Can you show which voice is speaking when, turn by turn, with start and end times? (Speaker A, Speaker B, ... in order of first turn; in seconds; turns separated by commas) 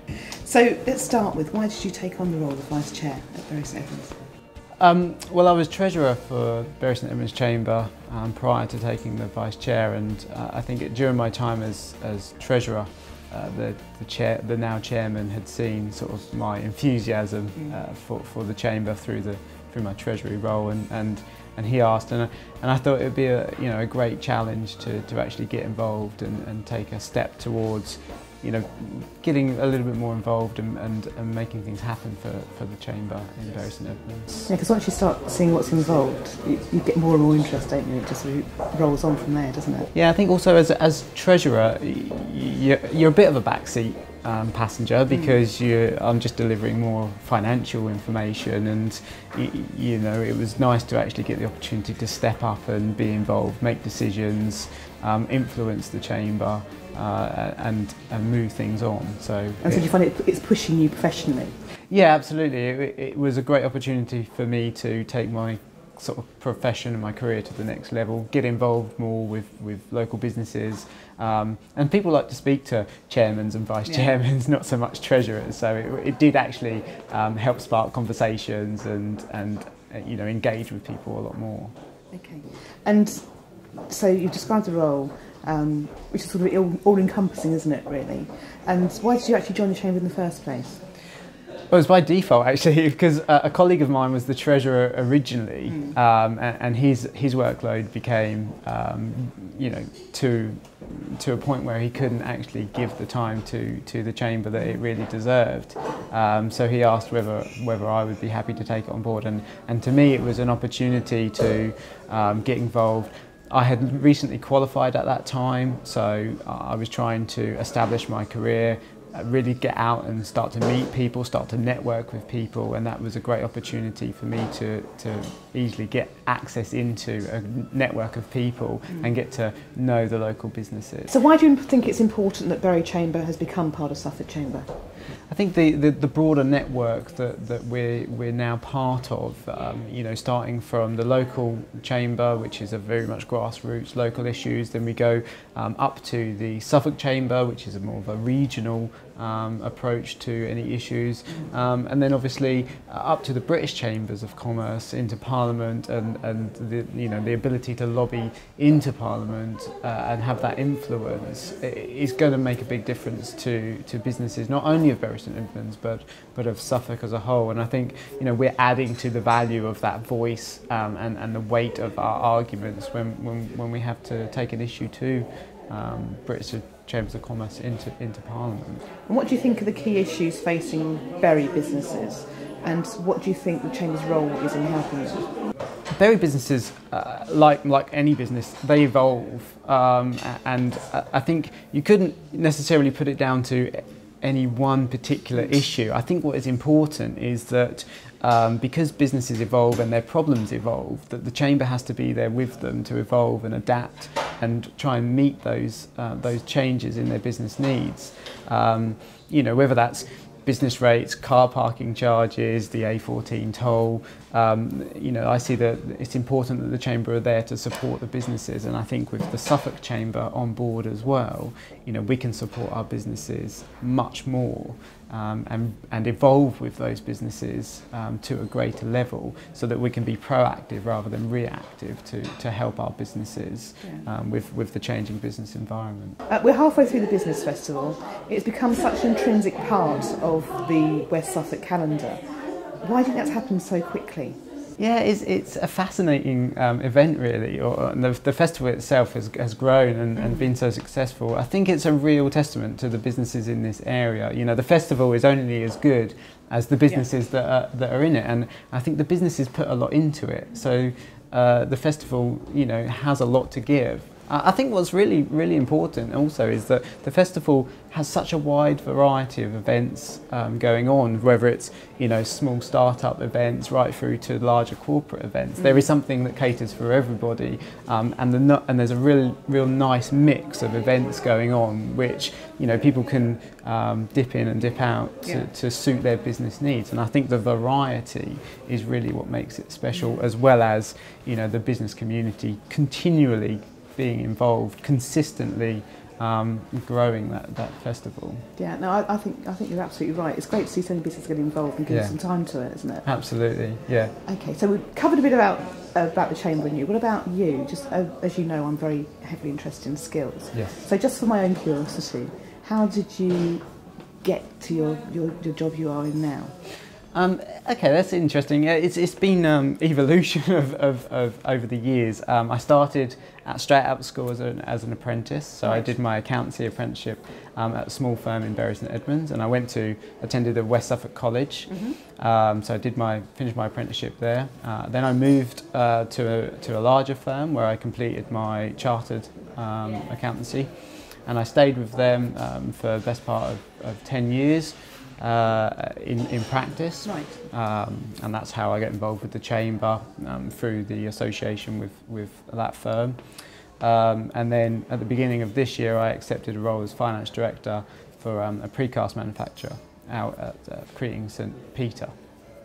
Speaker A: 0.4-4.2, Speaker B: 4.8-34.5, Speaker A: 34.5-39.9, Speaker B: 39.9-59.9, Speaker A: 45.1-45.4, Speaker A: 59.6-61.5, Speaker B: 61.9-81.7, Speaker A: 82.1-83.2, Speaker A: 83.9-90.8, Speaker B: 91.7-131.1, Speaker A: 95.7-96.0, Speaker A: 131.1-134.7, Speaker B: 135.3-178.8, Speaker A: 179.1-185.2, Speaker B: 185.9-236.2, Speaker A: 236.3-242.2, Speaker A: 242.8-244.4, Speaker B: 244.8-298.4, Speaker A: 250.2-250.5, Speaker A: 275.6-275.9, Speaker A: 298.6-303.1, Speaker B: 301.9-302.2, Speaker B: 303.1-304.1, Speaker A: 304.2-313.6, Speaker A: 314.2-316.5, Speaker B: 317.1-340.7, Speaker A: 325.6-325.9, Speaker A: 331.7-332.0, Speaker B: 341.3-353.2, Speaker A: 347.1-347.4, Speaker B: 353.8-362.1